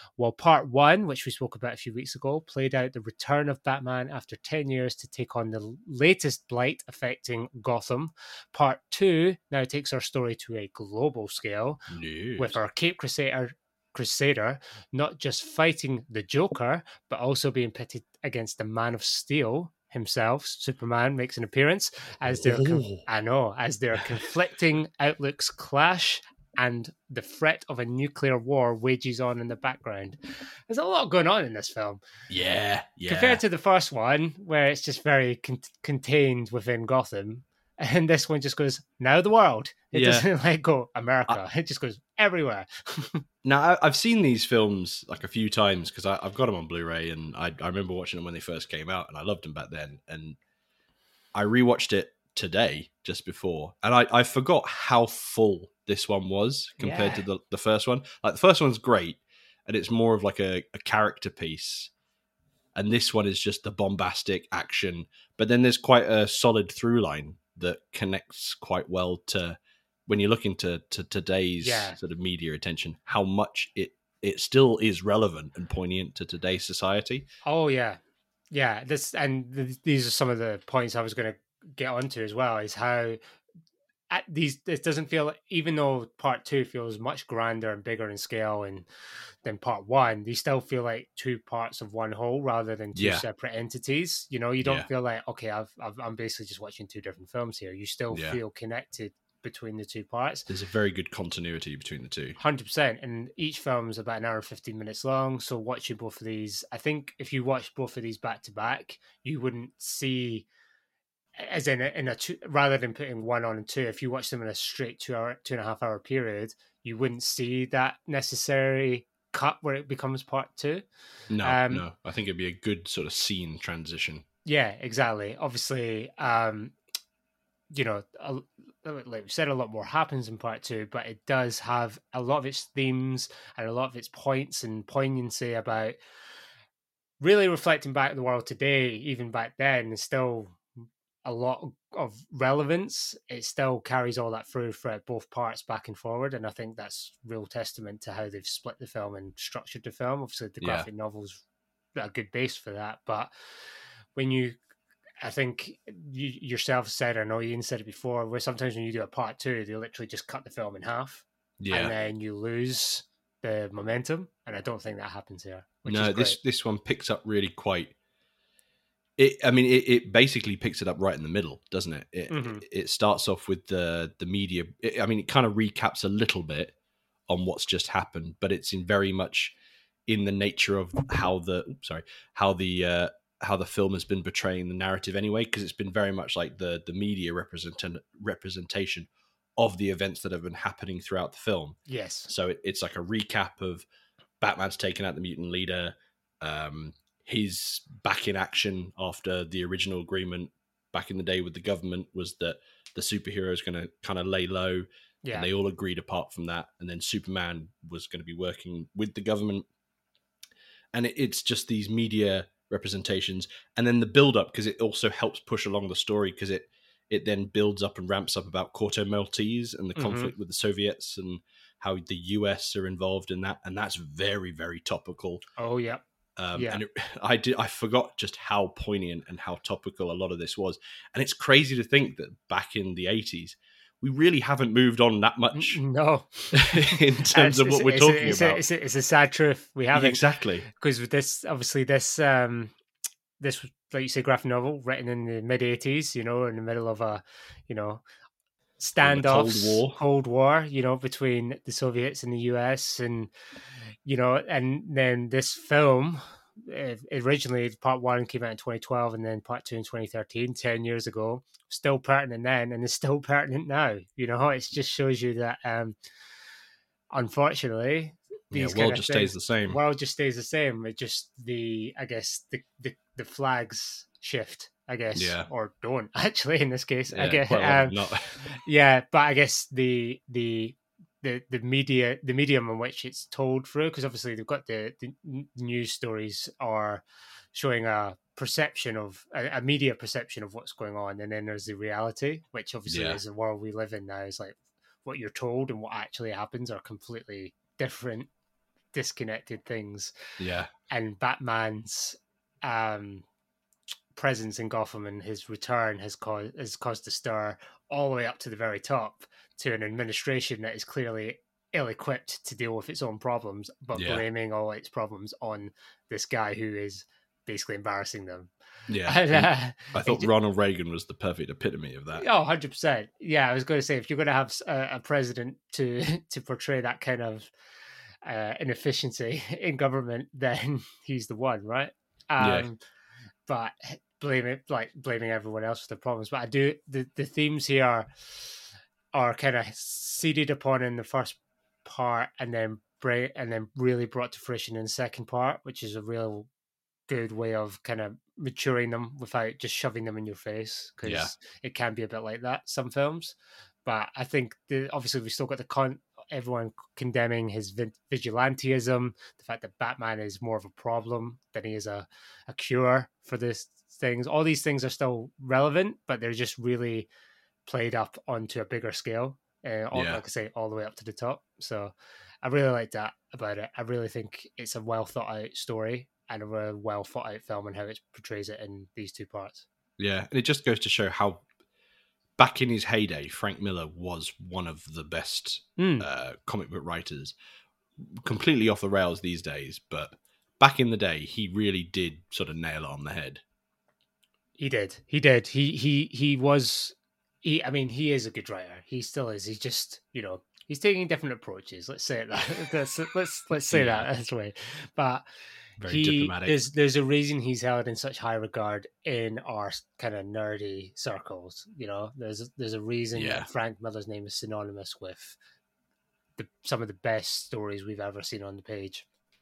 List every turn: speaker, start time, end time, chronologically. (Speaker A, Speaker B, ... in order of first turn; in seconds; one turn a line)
Speaker A: 0.2-11.8
Speaker B: 11.9-12.6
Speaker A: 12.4-32.0
Speaker B: 22.3-23.0
Speaker B: 32.3-33.4
Speaker A: 33.1-43.2
Speaker B: 39.9-40.2
Speaker B: 43.4-50.4
Speaker B: 51.3-61.9
Speaker A: 56.8-57.2
Speaker B: 62.7-77.2
Speaker A: 71.6-72.0
Speaker A: 77.4-78.0
Speaker A: 78.5-83.2
Speaker A: 84.1-88.9
Speaker A: 89.4-100.5
Speaker B: 92.9-93.2
Speaker B: 94.6-94.9
Speaker B: 98.1-98.4
Speaker B: 100.5-102.4
Speaker A: 102.4-110.5
Speaker A: 111.4-120.8
Speaker B: 121.3-124.2
Speaker A: 121.4-121.8
Speaker A: 124.5-126.7
Speaker A: 127.7-136.0
Speaker A: 137.2-140.6
Speaker A: 141.2-151.4
Speaker B: 150.6-150.9
Speaker A: 151.9-153.3
Speaker A: 154.1-154.6
Speaker A: 155.2-166.4
Speaker B: 161.6-161.9
Speaker B: 165.8-167.9
Speaker B: 169.2-176.7
Speaker A: 172.3-172.6
Speaker B: 177.3-179.5
Speaker B: 180.1-191.8
Speaker A: 191.9-192.3
Speaker B: 192.3-193.8
Speaker B: 194.4-209.7
Speaker B: 210.9-225.4
Speaker A: 219.9-220.3
Speaker A: 225.6-226.0
Speaker B: 226.4-235.8
Speaker A: 226.5-226.8
Speaker A: 235.5-242.7
Speaker B: 236.5-238.6
Speaker B: 239.9-240.7
Speaker A: 243.4-248.0
Speaker A: 248.8-253.3
Speaker B: 249.0-250.0
Speaker A: 254.0-265.9
Speaker A: 267.1-298.3
Speaker B: 268.5-269.8
Speaker B: 275.1-275.5
Speaker B: 277.1-278.4
Speaker B: 292.9-293.2
Speaker A: 298.9-300.1
Speaker B: 300.4-300.7
Speaker A: 300.9-303.2
Speaker A: 304.1-318.5
Speaker B: 313.9-314.2
Speaker B: 318.9-322.2
Speaker A: 319.1-320.3
Speaker A: 322.1-327.5
Speaker A: 328.2-332.8
Speaker B: 332.4-332.7
Speaker A: 333.5-338.5
Speaker A: 339.1-346.5
Speaker A: 347.1-367.1
Speaker B: 351.0-351.3
Speaker A: 367.6-379.6
Speaker B: 369.9-370.2
Speaker B: 380.0-381.4
Speaker B: 382.4-387.3
Speaker A: 385.8-386.1
Speaker B: 388.0-393.4
Speaker A: 394.6-405.2
Speaker B: 403.7-404.1
Speaker B: 405.8-406.6
Speaker A: 405.9-415.4
Speaker B: 413.1-413.5
Speaker A: 416.4-419.0